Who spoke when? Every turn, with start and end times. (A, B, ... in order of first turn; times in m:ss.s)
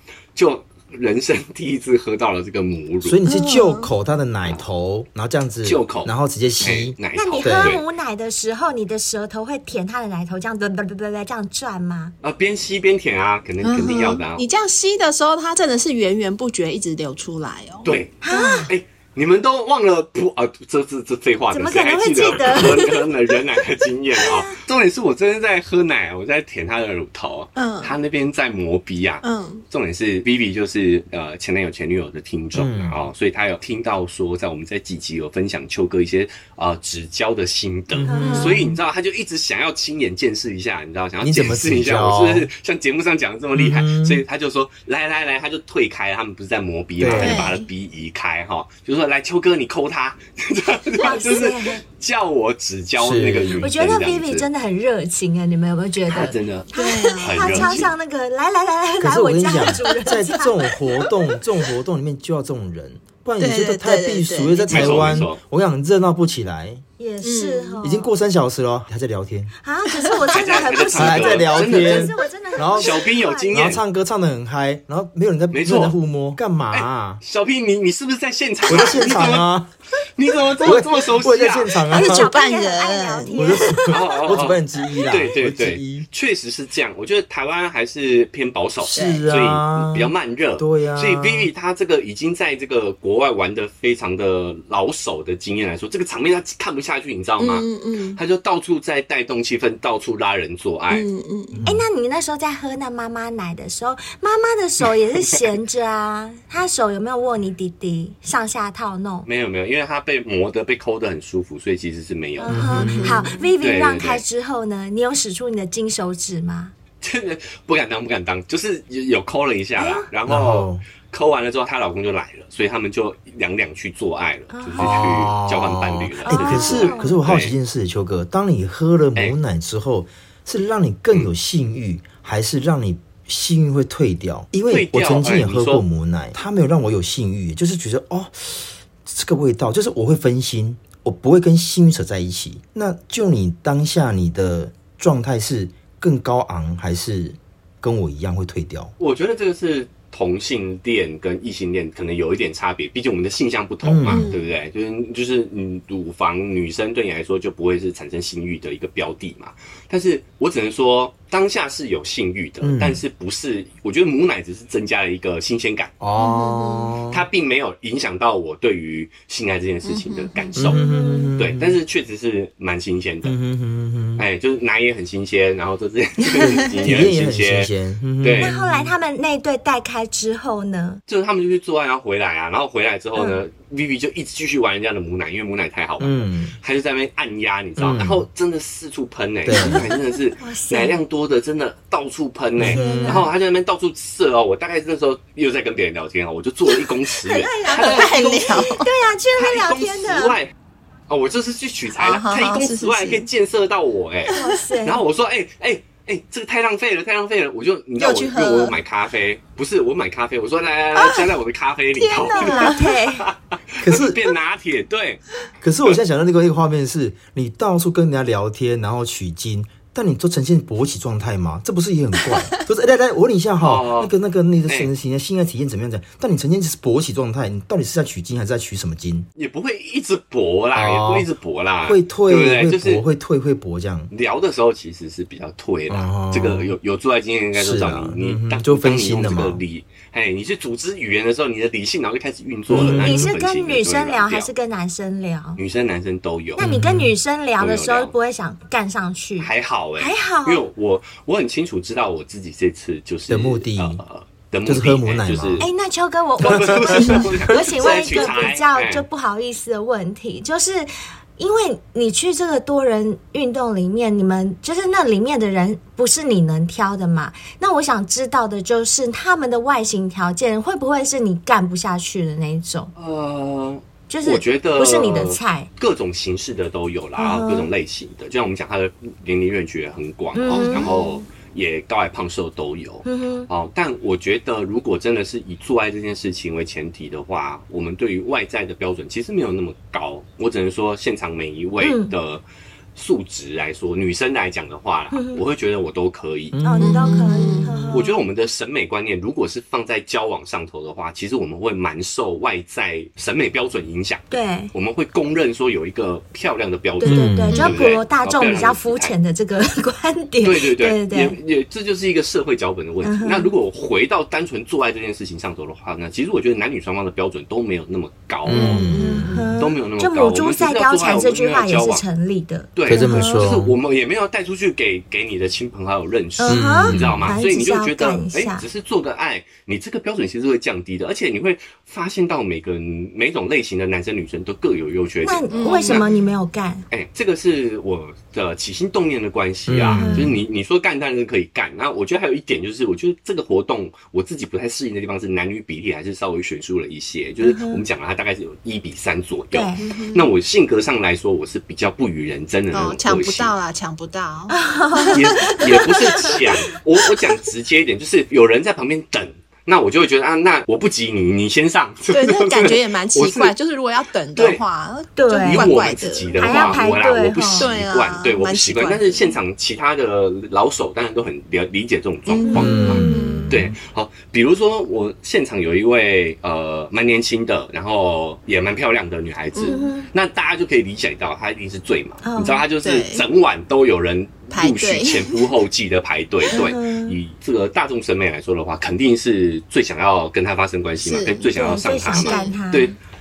0:00.4-0:03.2 A
0:03.0-0:07.8 B
0:03.3-0:03.9 C
0:05.6-0:07.8 A
0:07.1-0:12.1 D
0:12.2-0:14.5 A
0:13.6-0:18.7 C
0:17.8-0:54.5 A
0:18.2-0:18.7 D
0:21.5-0:23.6 D
0:24.2-0:24.6 D
0:27.6-0:28.0 C
0:29.2-0:29.6 C
0:32.5-0:33.0 B
0:37.9-0:38.7 B
0:38.1-0:38.6 D
0:38.2-0:38.5 C
0:41.2-0:42.5 B
0:43.6-0:44.2 B
0:47.0-0:47.5 B
0:47.1-0:47.6 C
0:51.0-0:51.8 D
0:53.0-0:53.7 B
0:53.6-1:00.6 D
0:56.1-0:57.8 A
0:56.7-0:57.8 C
0:59.0-1:06.8 B
1:03.4-1:05.1 C
1:04.7-1:05.4 A
1:07.0-1:08.1 D
1:07.2-1:07.9 C
1:07.8-1:09.5 B
1:09.6-1:13.6 D
1:10.3-1:12.2 A
1:11.0-1:13.0 B
1:12.7-1:13.8 A
1:13.5-1:17.2 B
1:15.5-1:16.0 A
1:16.7-1:19.5 A
1:18.7-1:19.7 B
1:20.2-1:21.8 A
1:20.6-1:22.3 B
1:21.9-1:24.0 D
1:21.9-1:24.0 C
1:23.4-1:26.1 B
1:23.9-1:41.1 A
1:28.8-1:29.2 C
1:28.8-1:31.5 B
1:37.4-1:38.2 C
1:40.9-1:41.6 C
1:41.5-1:41.8 B
1:41.6-1:49.3 D
1:49.2-1:52.7 A
1:52.4-1:56.7 D
1:52.5-1:53.3 B
1:52.6-1:53.5 C
1:53.6-1:54.2 A
1:57.0-2:07.5 A
1:59.8-2:00.1 D
2:00.3-2:00.8 B
2:04.5-2:05.1 D
2:04.8-2:28.9 B
2:06.2-2:07.2 D
2:14.7-2:15.8 A
2:29.0-2:45.9 A
2:33.8-2:34.3 B
2:34.1-2:34.5 C
2:42.6-2:43.0 B
2:46.0-2:47.2 B
2:46.2-2:47.0 C
2:47.1-2:50.8 A
2:49.9-2:50.8 C
2:50.6-2:51.8 B
2:50.7-2:51.3 D
2:51.4-2:53.4 A
2:53.2-2:54.2 B
2:54.2-2:58.6 A
2:56.8-2:59.0 B
2:58.4-3:01.0 D
3:01.1-3:18.8 A
3:03.2-3:03.4 D
3:06.0-3:06.6 B
3:07.8-3:08.3 B
3:09.5-3:09.9 B
3:10.4-3:11.0 D
3:12.6-3:13.1 B
3:12.7-3:13.3 D
3:12.8-3:13.2 C
3:17.2-3:20.4 D
3:17.7-3:18.9 C
3:19.4-3:20.5 A
3:21.1-3:35.2 A
3:22.0-3:23.3 C
3:24.3-3:25.0 D
3:28.0-3:28.8 C
3:32.0-3:32.8 C
3:32.1-3:33.3 D
3:33.8-3:34.3 B
3:35.6-3:49.3 B
3:43.6-3:44.1 A
3:49.4-3:53.0 A
3:50.8-3:51.3 B
3:51.8-3:54.1 B
3:54.1-4:04.5 A
3:55.9-3:56.8 B
3:57.6-3:59.6 B
4:02.7-4:03.3 B
4:02.8-4:05.6 D
4:05.6-4:06.6 A
4:06.6-4:10.7 D
4:06.6-4:07.1 B
4:07.6-4:08.1 A
4:09.4-4:15.7 A
4:13.3-4:14.0 B
4:14.6-4:15.7 B
4:15.6-4:32.9 D
4:16.4-4:19.0 A
4:16.5-4:17.4 B
4:33.0-4:52.4 A
4:34.1-4:35.7 D
4:37.2-4:37.7 D
4:40.3-4:41.0 D
4:40.5-4:41.2 C
4:43.0-4:43.5 D
4:51.8-4:52.1 D
4:53.0-4:56.6 A
4:55.1-4:55.4 D
4:56.5-4:57.6 B
4:56.6-4:58.2 D
4:56.8-4:57.9 C
4:57.9-5:09.2 A
5:04.3-5:04.7 D
5:07.0-5:11.4 D
5:07.0-5:07.7 B
5:10.4-5:18.9 A
5:13.0-5:13.5 D
5:18.5-5:19.6 B
5:18.5-5:23.2 D
5:18.6-5:19.2 C
5:19.6-5:22.0 A
5:22.8-5:36.0 A
5:22.9-5:23.8 B
5:26.4-5:28.6 D
5:26.5-5:27.4 B
5:35.2-5:36.9 D
5:35.5-5:36.1 C
5:36.9-5:53.6 A
5:39.7-5:40.3 B
5:40.0-5:40.4 D
5:47.4-5:47.8 D
5:49.5-5:49.8 D
5:49.8-5:50.3 C
5:52.7-5:56.3 C
5:54.5-5:56.4 D
5:55.1-6:03.5 A
6:02.1-6:06.9 C
6:04.4-6:04.6 A
6:05.2-6:05.8 D
6:05.4-6:33.0 A
6:06.4-6:07.7 D
6:07.6-6:09.4 C
6:12.3-6:13.5 D
6:12.4-6:13.6 C
6:12.5-6:13.7 B
6:19.6-6:19.9 C
6:19.7-6:20.1 D
6:22.2-6:22.6 D
6:22.8-6:23.2 C
6:24.5-6:25.5 C
6:26.5-6:27.2 D
6:31.0-6:32.5 C
6:31.6-6:32.9 D